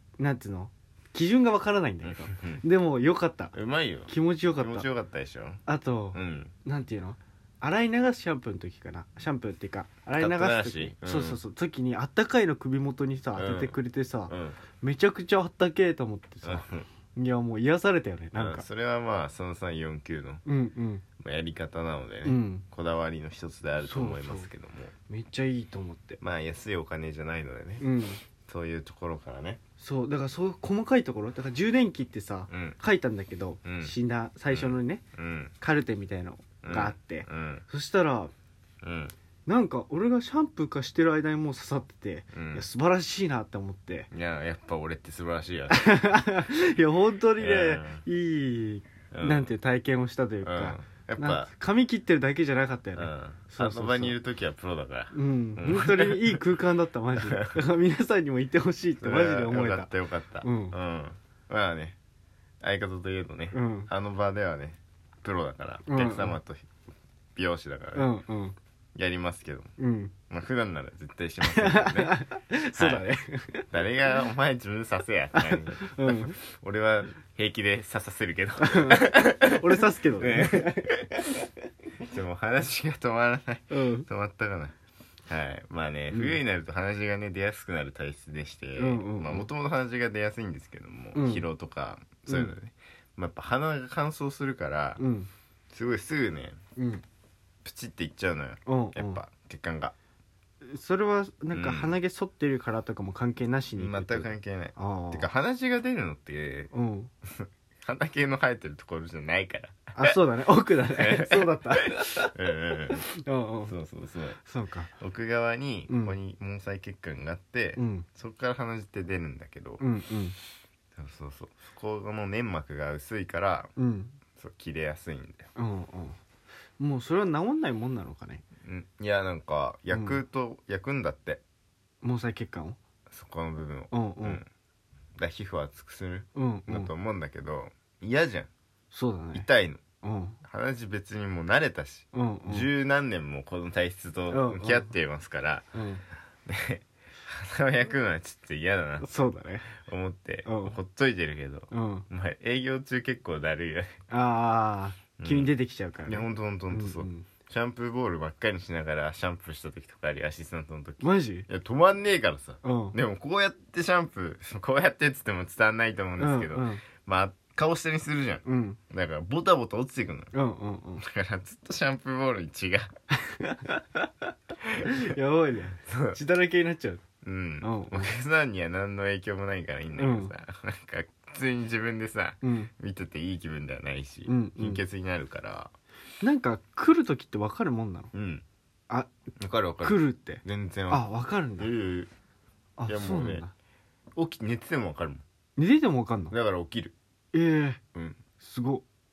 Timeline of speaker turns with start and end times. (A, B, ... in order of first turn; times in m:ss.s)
0:00.2-0:03.5 A
0:02.0-0:02.6 B
0:03.5-0:05.6 B
0:04.1-0:04.9 A
0:05.7-0:18.7 A
0:06.1-0:06.5 B
0:10.2-0:11.4 B
0:13.4-0:13.8 B
0:14.3-0:14.6 B
0:16.4-0:16.9 B
0:18.4-0:20.4 B
0:20.4-0:21.0 A
0:21.2-0:24.9 B
0:22.2-0:22.6 A
0:23.8-0:24.5 A
0:25.1-0:26.2 A
0:26.2-0:27.8 B
0:27.8-0:28.2 A
0:28.4-0:29.6 B
0:29.8-0:35.0 A
0:32.5-0:32.8 B
0:33.6-0:33.9 B
0:34.5-0:35.5 B
0:35.6-0:38.3 A
0:36.6-0:37.6 B
0:38.8-0:39.1 B
0:39.5-0:44.1 A
0:42.3-0:42.6 B
0:44.1-0:45.9 B
0:45.7-0:54.2 A
0:47.4-0:48.0 B
0:49.1-0:49.5 B
0:50.4-0:51.5 B
0:53.0-0:56.4 B
0:55.1-0:59.9 A
0:57.2-0:57.5 B
0:59.0-1:02.0 B
1:00.4-1:00.8 A
1:02.6-1:06.7 B
1:03.5-1:03.9 A
1:05.9-1:06.4 A
1:07.4-1:08.1 B
1:07.9-1:08.6 A
1:08.9-1:09.7 B
1:09.8-1:10.1 A
1:10.3-1:12.1 B
1:11.4-1:13.6 A
1:12.8-1:13.0 B
1:13.7-1:21.4 B
1:15.3-1:16.4 A
1:18.6-1:20.9 A
1:22.0-1:24.8 B
1:23.7-1:24.1 A
1:25.3-1:35.0 B
1:26.1-1:26.4 A
1:28.8-1:29.5 A
1:31.1-1:31.4 A
1:32.3-1:32.6 A
1:35.0-1:35.3 A
1:35.7-1:36.6 B
1:36.8-1:37.0 A
1:37.6-1:39.9 B
1:38.6-1:39.2 A
1:40.6-1:45.3 A
1:41.5-1:42.0 B
1:43.8-1:46.7 B
1:46.7-1:47.1 A
1:47.3-1:50.2 B
1:49.9-1:52.3 A
1:50.9-1:53.0 B
1:52.9-1:53.7 A
1:53.7-1:54.4 B
1:54.4-1:54.9 A
1:55.0-1:59.8 B
1:55.9-1:56.2 A
1:57.8-1:58.1 A
1:59.8-2:00.4 A
2:00.9-2:03.7 B
2:03.8-2:04.2 A
2:04.4-2:05.5 B
2:05.6-2:06.2 A
2:06.8-2:08.4 A
2:08.6-2:11.4 B
2:09.9-2:10.2 A
2:12.0-2:12.8 A
2:13.1-2:14.5 B
2:13.9-2:14.4 A
2:15.2-2:18.5 B
2:16.3-2:16.9 A
2:18.9-2:19.4 A
2:19.3-2:19.8 B
2:20.0-2:20.4 A
2:20.4-2:25.6 B
2:22.1-2:22.7 A
2:24.3-2:24.9 A
2:25.7-2:26.0 A
2:26.4-2:29.2 B
2:29.0-2:29.7 A
2:29.8-2:33.9 B
2:30.4-2:30.8 A
2:31.7-2:32.1 A
2:34.1-2:37.3 A
2:35.2-2:35.5 B
2:36.0-2:50.3 B
2:41.0-2:41.5 A
2:42.6-2:43.0 A
2:46.2-2:46.8 A
2:48.4-2:48.8 A
2:50.3-2:51.0 A
2:51.0-2:52.9 B
2:53.2-2:54.1 A
2:54.6-2:55.1 B
2:54.8-2:57.0 A
2:55.9-2:56.2 B
2:57.2-3:05.7 B
2:57.6-2:58.1 A
3:00.0-3:00.3 A
3:02.4-3:02.7 A
3:04.2-3:04.8 A
3:06.2-3:08.1 A
3:08.1-3:08.4 B
3:09.4-3:12.1 B
3:09.8-3:11.7 A
3:12.8-3:13.5 A
3:12.9-3:13.4 B
3:14.1-3:15.2 B
3:15.6-3:16.3 A
3:16.3-3:16.9 B
3:17.3-3:17.8 A
3:17.9-3:18.2 B
3:18.4-3:18.8 A